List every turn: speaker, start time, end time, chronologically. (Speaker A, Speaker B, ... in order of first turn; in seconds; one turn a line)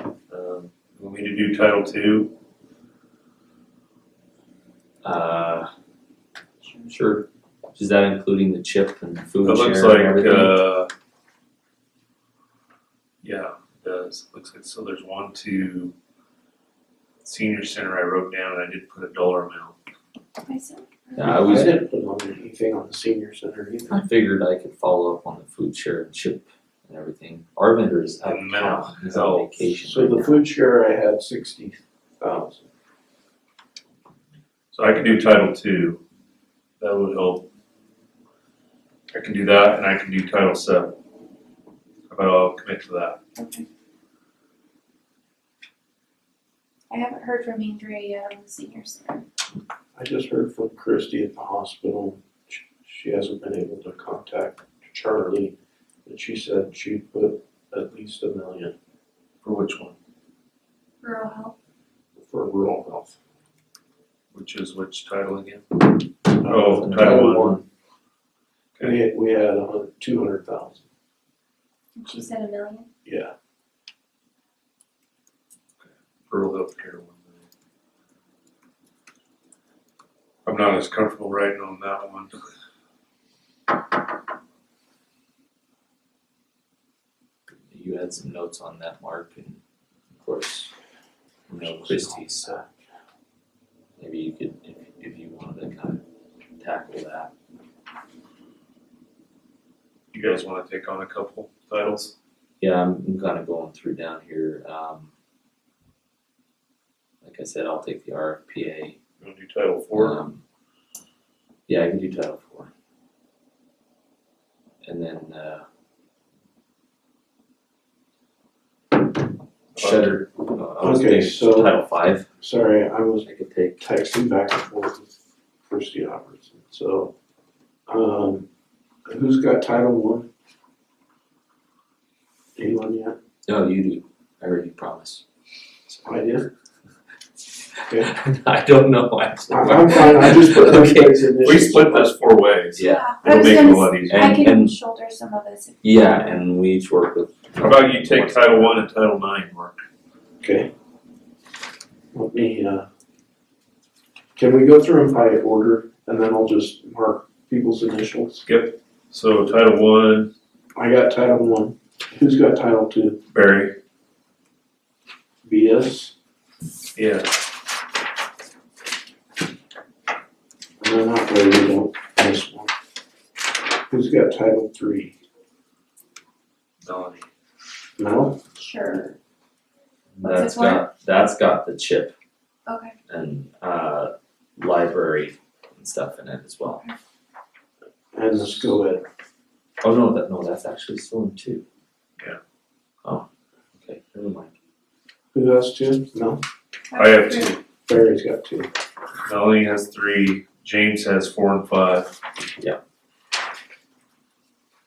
Speaker A: 0.3-2.3
Speaker B: 5.0-5.7
Speaker C: 6.6-6.9
Speaker B: 6.9-10.6
Speaker A: 9.4-10.9
Speaker A: 13.2-15.9
Speaker A: 17.2-19.8
Speaker C: 20.4-21.7
Speaker B: 21.2-21.8
Speaker D: 21.2-24.0
Speaker B: 23.9-30.5
Speaker A: 28.3-29.5
Speaker D: 29.8-32.7
Speaker A: 34.7-36.0
Speaker A: 36.8-37.5
Speaker A: 39.1-41.0
Speaker A: 42.1-43.2
Speaker C: 43.4-43.6
Speaker C: 46.9-49.2
Speaker D: 50.0-55.5
Speaker D: 56.0-58.7
Speaker A: 59.4-60.0
Speaker C: 61.0-61.5
Speaker D: 62.1-63.1
Speaker A: 64.3-67.5
Speaker D: 66.4-67.5
Speaker B: 66.7-67.6
Speaker D: 68.8-70.8
Speaker C: 72.0-72.9
Speaker D: 73.0-73.3
Speaker A: 75.8-77.5
Speaker A: 80.4-82.3
Speaker B: 87.7-89.6
Speaker B: 90.1-90.7
Speaker B: 91.5-92.5
Speaker D: 91.6-92.7
Speaker B: 94.0-96.0
Speaker B: 96.6-97.3
Speaker A: 100.1-102.1
Speaker B: 102.6-105.1
Speaker B: 107.2-109.0
Speaker A: 109.2-110.2
Speaker B: 109.9-110.4
Speaker B: 111.7-112.7
Speaker B: 114.8-115.6
Speaker A: 119.7-120.2
Speaker B: 119.8-122.3
Speaker D: 120.8-121.7
Speaker D: 122.4-123.3
Speaker B: 123.2-123.9
Speaker D: 123.8-125.1
Speaker D: 125.7-127.1
Speaker D: 127.9-128.5
Speaker D: 129.1-130.3
Speaker D: 132.6-133.2
Speaker B: 133.4-135.2
Speaker D: 136.0-136.5
Speaker B: 137.9-141.3
Speaker D: 139.5-142.1
Speaker A: 141.4-144.4
Speaker B: 142.7-143.2
Speaker C: 142.8-146.0
Speaker B: 144.1-144.7
Speaker B: 145.8-148.8
Speaker A: 147.6-149.8
Speaker D: 150.4-150.7
Speaker D: 152.1-152.9
Speaker D: 154.3-158.4
Speaker A: 158.4-160.3
Speaker D: 160.7-163.2
Speaker A: 163.3-163.8
Speaker D: 165.4-166.1
Speaker A: 166.9-167.3
Speaker D: 170.8-172.7
Speaker D: 173.9-175.1
Speaker A: 176.8-177.2
Speaker D: 178.0-178.4
Speaker C: 178.5-179.2
Speaker B: 180.2-182.1
Speaker C: 180.2-180.9
Speaker C: 182.7-182.9
Speaker B: 183.1-186.8
Speaker D: 188.1-189.0
Speaker B: 189.8-191.6
Speaker B: 193.0-194.5
Speaker D: 195.3-196.4
Speaker C: 196.9-197.6
Speaker A: 196.9-197.6
Speaker D: 197.8-198.7
Speaker A: 199.2-202.1